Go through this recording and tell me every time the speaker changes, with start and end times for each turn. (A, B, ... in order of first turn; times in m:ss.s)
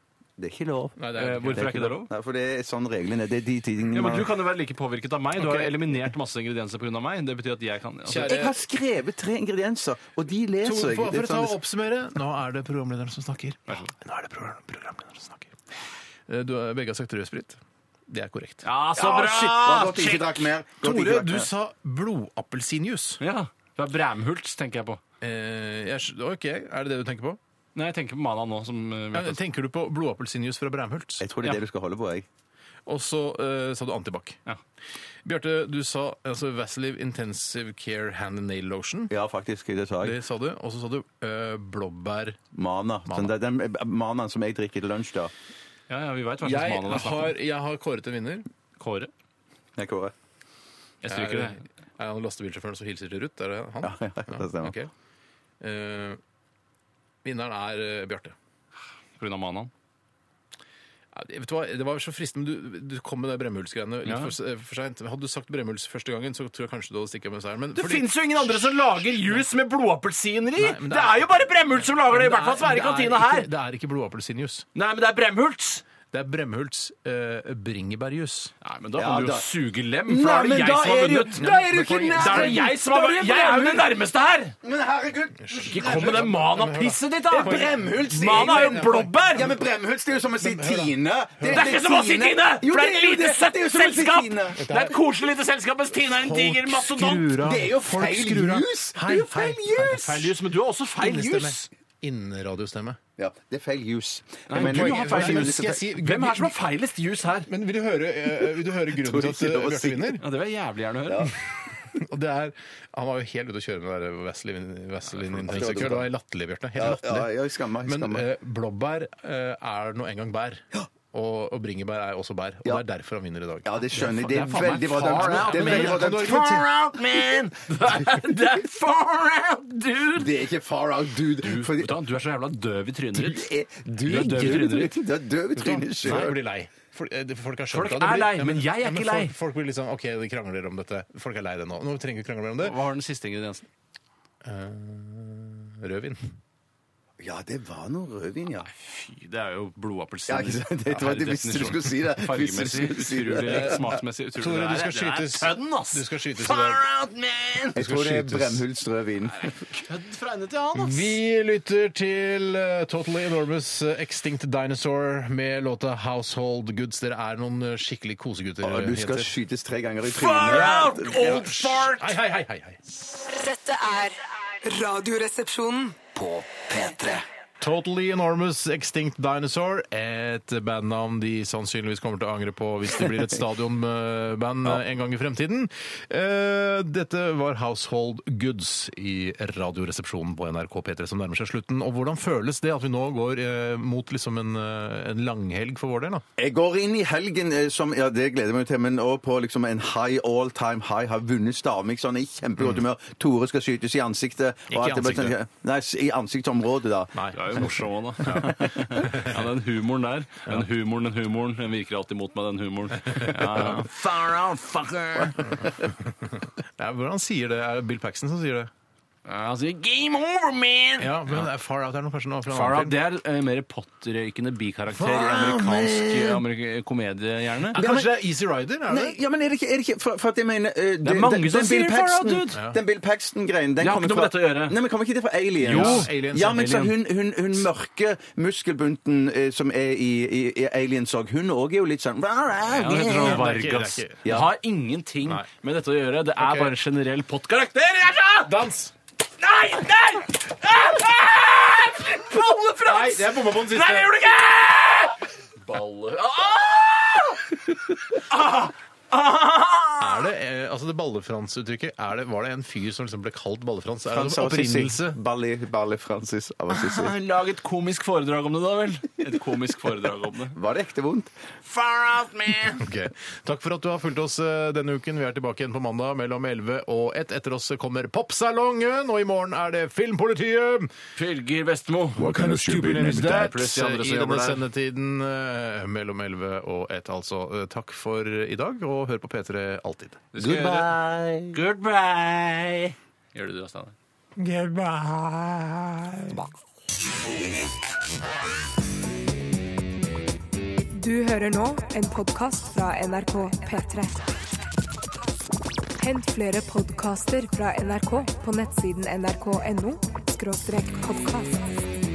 0:00.4-0:01.0 A
0:01.0-0:01.8 B
0:01.2-0:02.1 C
0:01.5-0:04.3 A
0:03.9-0:08.4 C
0:05.4-0:05.7 B
0:08.0-0:08.6 B
0:08.1-0:11.5 A
0:10.6-0:15.5 B
0:16.3-0:18.6 B
0:18.6-0:20.4 C
0:19.0-0:21.5 A
0:20.8-0:23.2 B
0:23.2-0:25.0 C
0:25.2-0:27.4 B
0:27.7-0:29.4 C
0:29.1-0:31.2 B
0:31.2-0:32.2 A
0:32.8-0:34.4 B
0:35.2-0:39.1 B
0:39.1-0:40.2 A
0:40.0-0:42.4 B
0:42.5-0:45.3 A
0:43.1-0:43.3 B
0:45.9-0:47.3 C
0:46.4-0:48.5 B
0:48.8-0:49.1 C
0:49.8-0:50.1 A
0:51.0-0:51.6 C
0:51.1-0:54.9 B
0:53.8-0:54.8 A
0:55.6-0:56.2 B
0:57.2-0:58.3 B
0:59.2-0:59.7 C
1:01.1-1:09.4 B
1:04.0-1:04.3 C
1:07.7-1:13.5 C
1:10.6-1:14.6 B
1:14.7-1:15.8 C
1:16.1-1:18.5 B
1:18.6-1:24.6 C
1:19.0-1:19.5 A
1:20.1-1:22.7 A
1:21.4-1:23.9 B
1:24.6-1:26.3 A
1:25.4-1:29.1 B
1:25.7-1:29.6 C
1:27.3-1:34.6 A
1:30.4-1:31.7 B
1:31.5-1:37.4 C
1:34.6-1:34.9 B
1:36.0-1:39.6 B
1:37.4-1:40.3 A
1:39.6-1:41.7 C
1:41.0-1:43.0 B
1:43.2-1:45.8 A
1:44.5-1:47.5 C
1:44.6-1:46.5 B
1:47.5-1:50.2 B
1:48.9-1:50.2 A
1:50.2-1:51.3 C
1:51.9-1:57.3 B
1:55.3-1:55.9 C
1:55.4-1:56.1 A
1:56.8-1:58.2 A
1:57.8-2:03.8 B
2:03.6-2:06.6 A
2:03.9-2:10.3 C
2:05.0-2:06.6 B
2:10.2-2:11.9 A
2:11.4-2:13.5 C
2:13.1-2:16.3 A
2:14.0-2:14.9 C
2:15.6-2:22.8 B
2:16.0-2:16.3 C
2:17.7-2:19.3 C
2:22.6-2:23.6 C
2:24.4-2:26.3 B
2:27.2-2:28.7 A
2:28.7-2:37.8 C
2:30.3-2:33.9 A
2:33.5-2:33.8 B
2:34.4-2:36.8 B
2:37.7-2:39.5 A
2:37.8-2:38.6 B
2:39.3-2:41.1 C
2:40.7-2:49.3 B
2:48.6-2:51.4 A
2:50.1-2:52.2 C
2:50.5-2:52.8 B
2:53.0-2:56.0 D
2:56.2-2:57.2 A
2:57.6-3:16.2 B
3:16.4-3:27.1 A
3:24.7-3:25.4 B
3:27.1-3:29.4 B
3:27.3-3:35.7 C
3:33.1-3:33.8 B
3:35.6-3:38.7 B
3:39.2-3:41.4 C
3:41.0-3:43.0 B
3:42.5-3:47.8 C
3:44.9-3:46.4 B
3:47.7-3:49.2 B
3:47.7-3:48.2 A
3:48.9-4:03.4 A
3:51.0-3:52.6 C
3:53.8-3:54.8 C
3:55.6-3:56.9 C
3:55.6-3:56.7 B
4:02.7-4:08.5 C
4:02.9-4:04.2 B
4:04.2-4:04.5 A
4:06.4-4:06.7 B
4:08.4-4:08.9 B
4:09.4-4:20.3 C
4:12.8-4:14.1 B
4:20.0-4:25.2 B
4:24.1-4:27.1 A
4:26.7-4:30.6 C
4:30.5-4:31.3 A
4:31.6-4:32.8 C
4:32.7-4:40.9 B
4:41.2-4:42.5 C
4:42.2-4:43.5 A
4:42.2-4:50.3 B
4:43.1-4:44.6 C
4:50.3-4:50.9 C
4:50.4-4:51.6 A
4:51.5-4:53.9 C
4:54.4-4:56.4 B
5:00.9-5:04.2 D
5:06.0-5:11.7 D